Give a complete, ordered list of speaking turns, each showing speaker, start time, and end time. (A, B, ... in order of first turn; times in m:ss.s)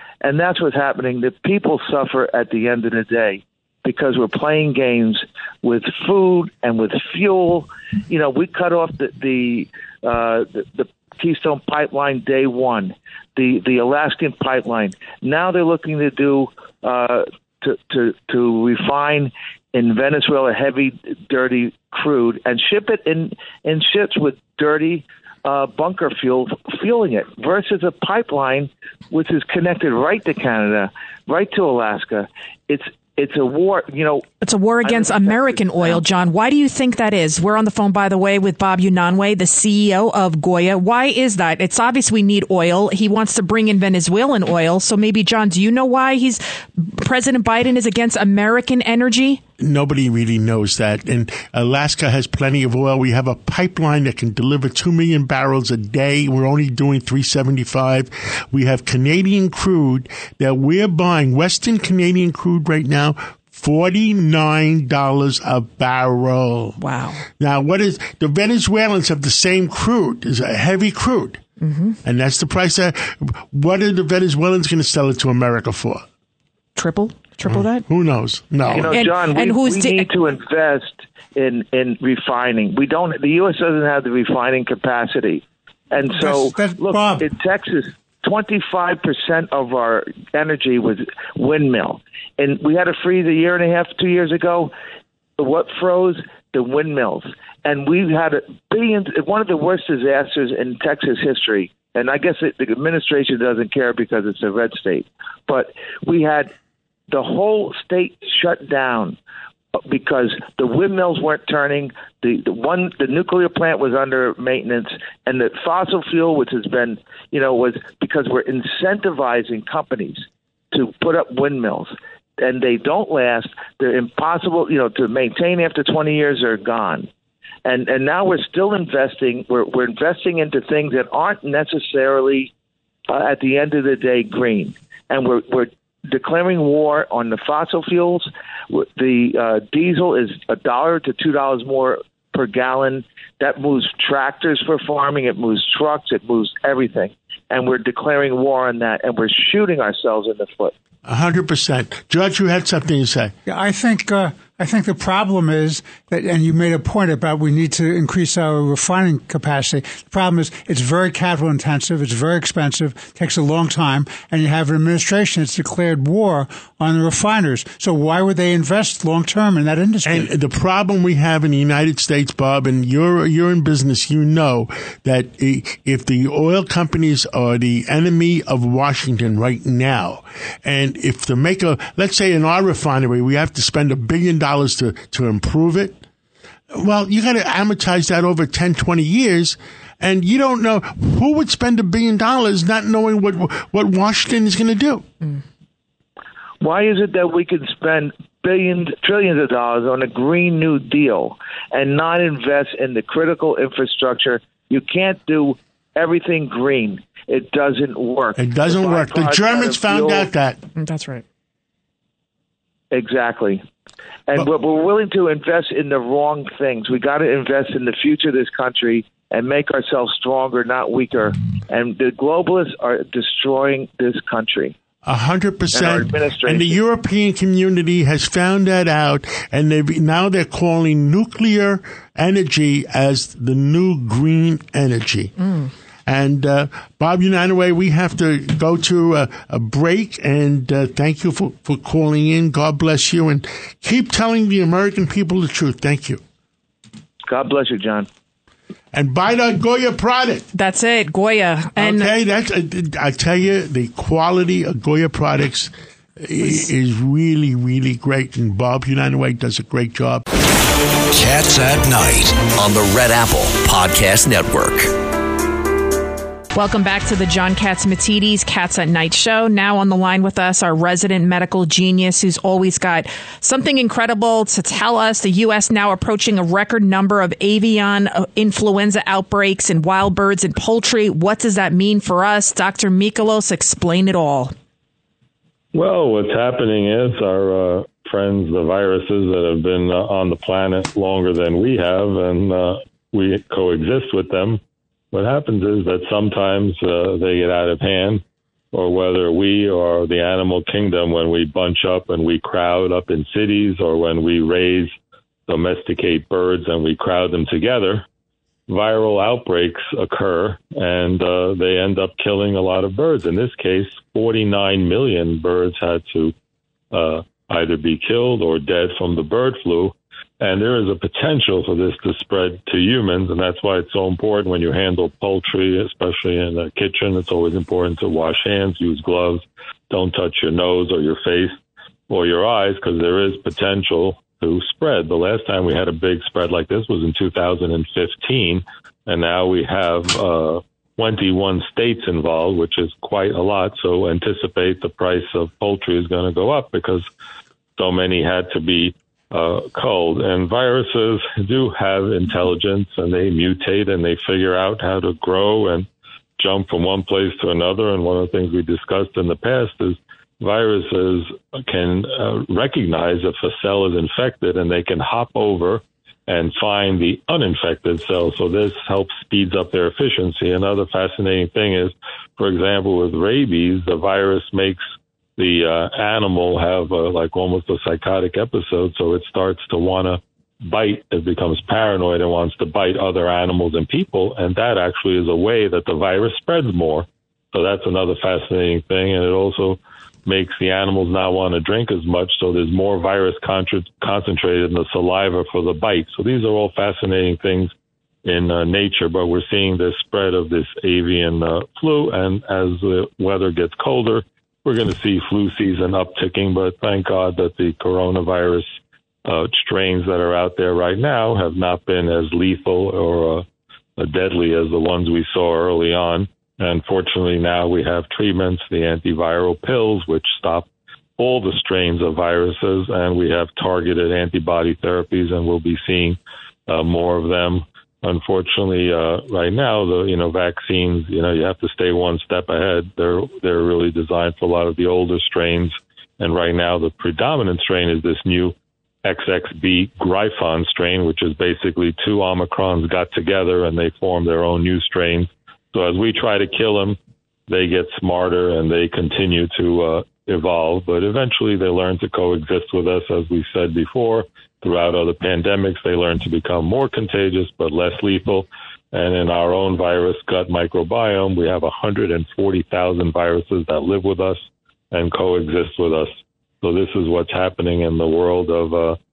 0:00.2-0:34.3 A
0:34.4-0:49.4 B
0:34.8-0:36.0 A
0:49.6-1:06.8 C
1:06.8-1:07.2 B
1:07.4-1:11.4 C
1:11.6-1:12.0 B
1:12.0-1:16.0 C
1:16.8-1:17.8 B
1:17.5-1:19.0 C
1:18.6-1:34.7 A
1:18.9-1:20.1 B
1:26.1-1:27.3 D
1:35.4-1:46.5 A
1:47.1-1:49.2 A
1:49.8-2:07.1 A
2:07.6-2:12.5 A
2:13.1-2:30.7 A
2:31.0-2:33.3 C
2:33.4-2:50.3 D
2:50.0-3:06.0 C
3:06.7-3:15.1 C
3:16.6-3:30.3 A
3:28.4-3:30.6 C
3:30.8-3:31.2 B
3:32.9-3:33.6 A
3:34.3-3:44.7 A
3:45.0-3:55.4 C
3:45.7-3:46.8 A
3:56.1-4:06.2 C
4:07.3-4:08.1 A
4:08.9-4:10.4 C
4:10.5-4:12.1 B
4:11.8-4:20.2 C
4:21.1-4:24.9 E
4:26.5-4:44.5 B
4:45.7-4:54.6 F
4:55.1-5:04.9 F
5:05.5-5:08.0 F
5:08.7-5:16.3 F
5:16.9-5:31.5 F
5:32.1-5:47.0 F
5:47.8-5:55.9 F
5:56.4-6:14.8 F
6:15.4-6:37.7 F
6:38.2-6:48.7 F
6:49.2-6:53.4 F
6:54.0-7:00.7 F
7:01.2-7:27.0 F
7:27.5-7:49.0 F